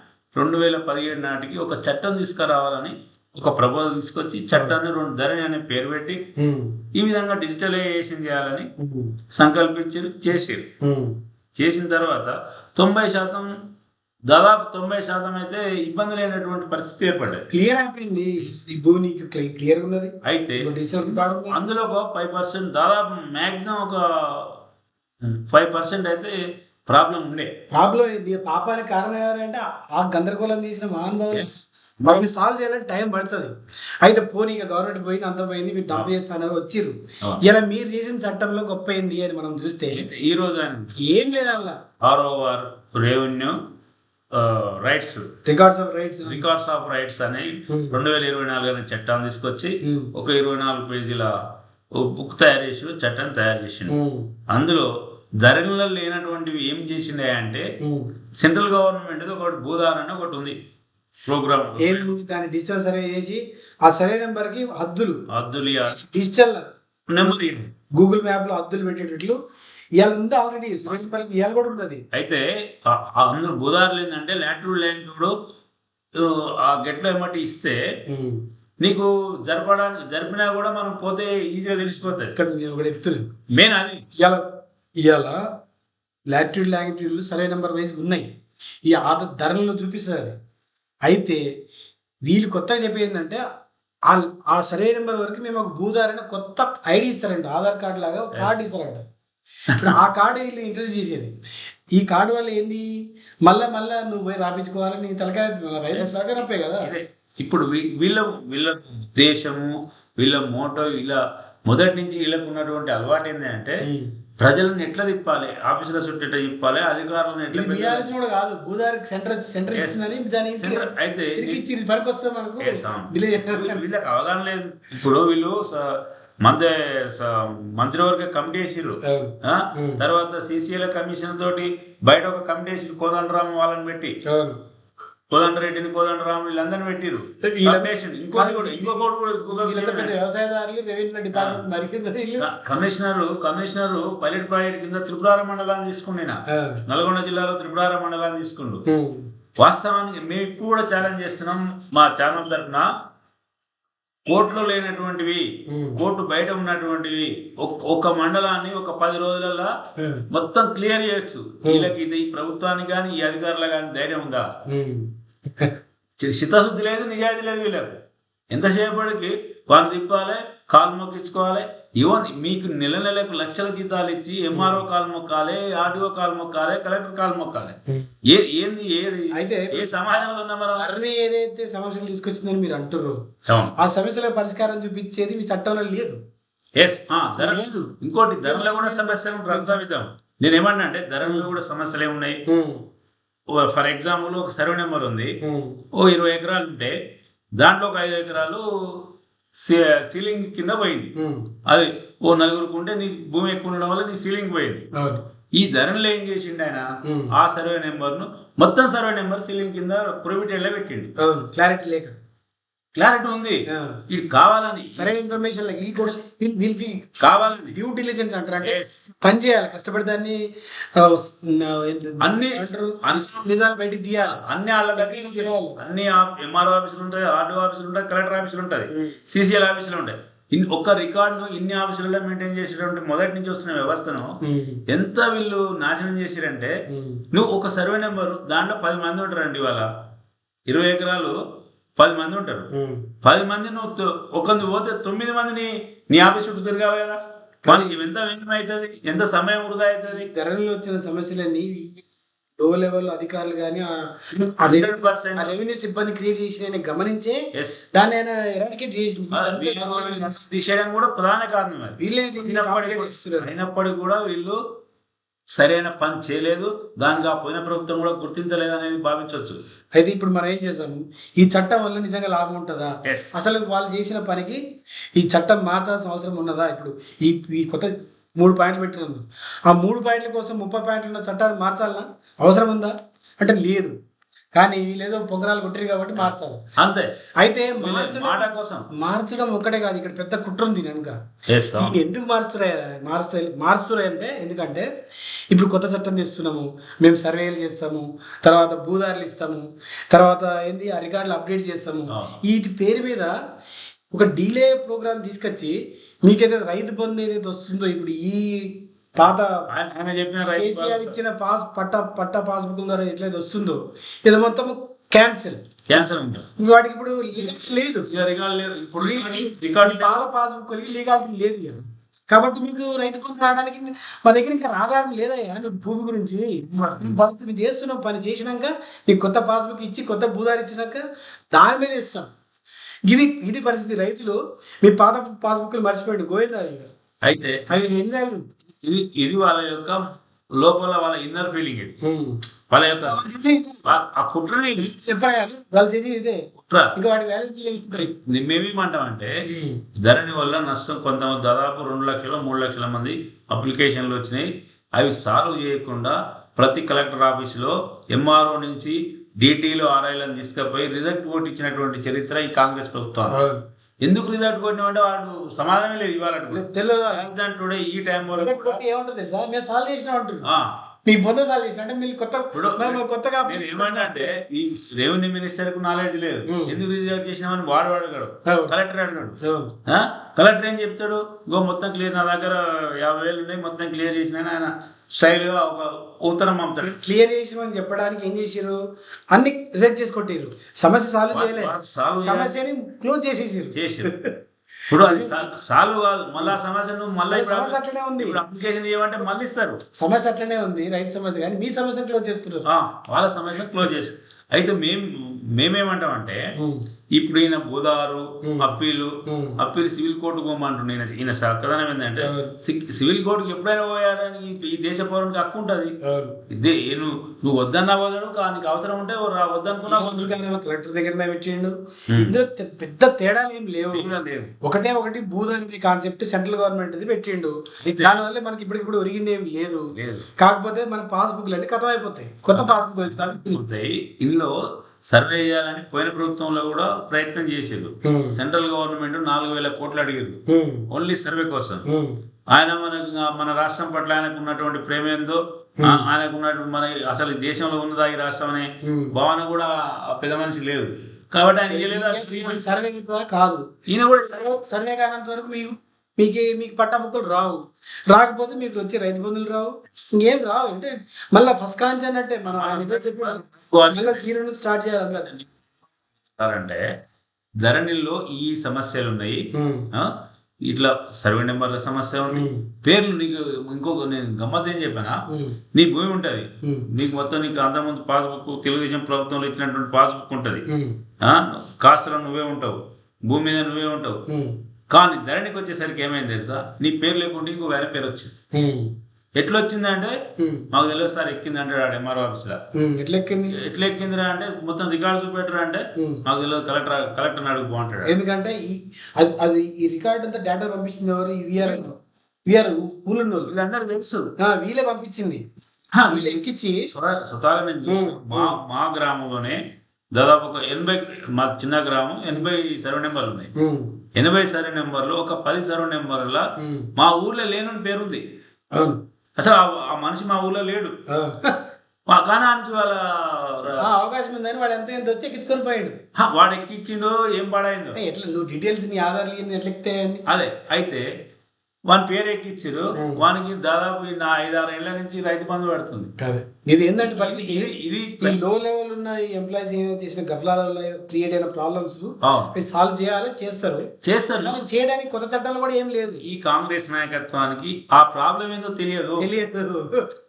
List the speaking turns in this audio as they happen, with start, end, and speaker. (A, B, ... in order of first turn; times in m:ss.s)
0:00.3-0:06.2 A
0:06.4-0:06.8 B
0:06.9-0:08.7 A
0:08.8-0:09.2 B
0:09.3-0:10.7 A
0:10.8-0:11.2 B
0:11.6-0:13.5 A
0:14.3-0:17.4 A
0:17.5-0:21.6 B
0:20.2-0:24.6 A
0:25.2-0:26.3 A
0:26.9-0:27.5 A
0:27.7-0:40.0 B
0:31.3-0:32.2 A
0:39.9-0:40.9 A
0:41.0-0:41.8 B
0:42.0-0:43.6 A
0:44.3-0:45.2 A
0:45.4-0:46.4 B
0:46.2-0:51.3 A
0:47.7-0:48.0 B
0:49.8-0:50.1 B
0:51.9-0:54.0 A
0:53.9-0:54.3 B
0:54.5-0:54.9 A
0:55.4-0:57.6 A
0:57.8-0:58.1 B
0:58.4-1:00.5 A
1:01.3-1:02.0 A
1:01.8-1:05.2 B
1:05.3-1:05.9 A
1:05.9-1:06.6 B
1:07.1-1:07.7 A
1:07.9-1:09.4 B
1:10.0-1:12.0 B
1:12.1-1:15.3 A
1:16.1-1:17.8 A
1:18.1-1:18.4 B
1:18.8-1:22.3 A
1:22.3-1:23.2 B
1:23.5-1:24.0 A
1:25.0-1:25.4 B
1:26.3-1:28.3 B
1:28.9-1:30.3 B
1:31.0-1:31.4 B
1:32.2-1:33.4 B
1:34.1-1:39.0 B
1:39.7-1:40.0 A
1:39.7-1:41.3 B
1:41.9-1:42.9 B
1:43.4-1:46.9 B
1:45.9-1:53.8 A
1:53.8-1:54.1 B
1:54.4-1:58.1 A
1:57.5-2:03.8 B
2:00.6-2:01.6 A
2:02.6-2:14.2 A
2:09.0-2:10.0 B
2:14.2-2:14.6 B
2:15.3-2:20.1 A
2:17.4-2:19.0 B
2:19.5-2:22.5 B
2:21.3-2:21.6 A
2:22.4-2:28.8 A
2:26.5-2:26.8 B
2:28.9-2:29.3 B
2:29.6-2:32.9 A
2:34.3-2:39.7 A
2:35.7-2:36.0 B
2:40.0-2:40.2 B
2:40.3-2:44.5 A
2:41.6-2:41.9 B
2:44.7-2:45.7 B
2:46.2-2:48.0 A
2:48.5-2:57.8 A
2:54.5-2:54.8 B
2:58.3-3:00.9 A
2:59.3-3:00.2 B
3:00.8-3:03.2 B
3:03.5-3:03.7 A
3:03.8-3:06.2 B
3:06.8-3:12.4 A
3:07.4-3:07.9 B
3:08.4-3:09.8 B
3:11.2-3:11.5 B
3:12.5-3:12.8 B
3:13.5-3:15.3 A
3:15.4-3:15.8 B
3:16.0-3:16.9 A
3:17.6-3:19.0 A
3:19.6-3:21.1 A
3:21.2-3:21.5 B
3:21.6-3:24.9 A
3:24.9-3:25.2 B
3:25.5-3:31.1 A
3:27.0-3:27.3 B
3:31.2-3:32.1 B
3:32.9-3:35.1 A
3:33.7-3:34.0 B
3:34.9-3:37.1 B
3:37.2-3:37.8 A
3:37.7-3:40.4 B
3:38.6-3:39.1 A
3:41.0-3:44.4 B
3:42.2-3:43.2 A
3:44.2-3:54.4 A
3:45.0-3:45.8 B
3:48.9-3:49.2 B
3:54.4-3:54.8 B
3:54.9-3:56.7 A
3:56.9-3:57.2 B
3:57.3-3:59.9 A
4:00.7-4:01.4 A
4:02.0-4:02.7 A
4:02.7-4:03.1 B
4:03.2-4:10.3 A
4:07.6-4:08.0 B
4:10.0-4:12.0 B
4:12.6-4:13.9 B
4:14.3-4:15.5 A
4:14.6-4:20.4 B
4:17.6-4:17.8 A
4:19.3-4:24.6 A
4:22.0-4:23.5 B
4:25.5-4:29.6 A
4:30.0-4:34.6 B
4:33.0-4:33.3 A
4:35.2-4:43.9 B
4:44.5-4:46.6 B
4:46.8-4:47.1 A
4:47.4-4:51.2 B
4:47.8-4:48.8 A
4:51.5-4:52.0 A
4:51.8-4:54.9 B
4:55.5-5:03.3 B
5:02.1-5:02.4 A
5:04.1-5:09.6 B
5:09.7-5:11.1 A
5:10.5-5:15.6 B
5:15.9-5:16.4 A
5:16.6-5:18.1 B
5:17.4-5:20.2 A
5:19.0-5:32.3 B
5:33.1-5:36.9 B
5:37.2-5:37.6 A
5:37.7-5:38.4 B
5:38.8-5:40.0 A
5:40.6-5:42.0 A
5:42.0-5:42.4 B
5:42.7-5:43.2 A
5:43.0-5:43.8 B
5:43.8-5:44.9 A
5:44.8-5:46.4 B
5:46.6-5:46.9 A
5:47.0-5:48.1 B
5:48.0-5:49.3 A
5:49.4-5:49.8 B
5:50.0-6:03.4 A
6:03.3-6:03.6 B
6:04.0-6:08.8 A
6:06.5-6:07.3 B
6:08.3-6:10.4 B
6:10.4-6:10.7 A
6:11.0-6:14.3 B
6:12.5-6:26.9 A
6:16.5-6:16.8 B
6:18.4-6:18.7 B
6:19.4-6:19.7 B
6:26.8-6:28.8 B
6:29.3-6:34.3 B
6:31.3-6:32.5 A
6:33.7-6:34.1 A
6:34.9-6:39.8 A
6:35.0-6:35.5 B
6:37.3-6:38.4 B
6:40.0-6:42.6 B
6:42.6-6:46.4 A
6:47.1-6:56.0 A
6:48.4-6:49.6 B
6:52.2-6:52.5 B
6:56.0-6:56.4 B
6:56.5-7:00.3 A
6:59.9-7:04.1 B
7:03.9-7:04.5 A
7:04.6-7:13.6 B
7:07.8-7:08.2 A
7:09.9-7:10.2 A
7:13.5-7:14.5 A
7:15.0-7:20.4 A
7:18.0-7:18.4 B
7:20.5-7:20.9 B
7:20.9-7:21.8 A
7:21.8-7:22.2 B
7:22.5-7:32.6 A
7:28.8-7:29.1 B
7:31.7-7:33.6 B
7:33.9-7:34.5 A
7:34.2-7:45.3 B
7:42.5-7:44.2 A
7:46.4-7:46.8 A
7:47.6-7:55.2 A
7:49.5-7:49.9 B
7:52.3-7:52.6 B
7:55.3-7:55.6 B
7:55.7-8:00.6 A
7:56.6-7:56.9 B
8:00.7-8:01.0 B
8:01.2-8:04.2 A
8:04.3-8:04.6 B
8:04.9-8:08.3 A
8:08.5-8:08.9 B
8:09.4-8:10.2 A
8:10.4-8:10.7 B
8:10.7-8:12.6 A
8:12.7-8:13.6 B
8:13.5-8:18.1 A
8:16.0-8:16.2 B
8:18.0-8:21.9 B
8:21.6-8:21.8 A
8:22.5-8:23.5 B
8:23.5-8:24.3 A
8:24.4-8:25.4 B
8:25.9-8:26.4 A
8:26.1-8:26.9 B
8:26.9-8:29.6 A
8:27.9-8:28.6 B
8:30.1-8:33.5 A
8:33.6-8:33.9 B
8:34.2-8:38.2 A
8:36.6-8:36.9 B
8:38.7-8:39.0 B
8:39.4-8:40.9 A
8:41.1-8:41.6 B
8:42.1-8:43.8 A
8:43.8-8:46.0 B
8:46.2-8:48.0 A
8:47.9-8:50.2 B
8:50.3-8:51.0 A
8:51.9-8:56.1 A
8:52.9-8:53.2 B
8:56.2-9:03.8 B
8:57.0-8:58.4 A
9:02.2-9:02.5 A
9:04.0-9:04.6 A
9:04.4-9:06.2 B
9:06.2-9:09.2 A
9:09.2-9:10.1 B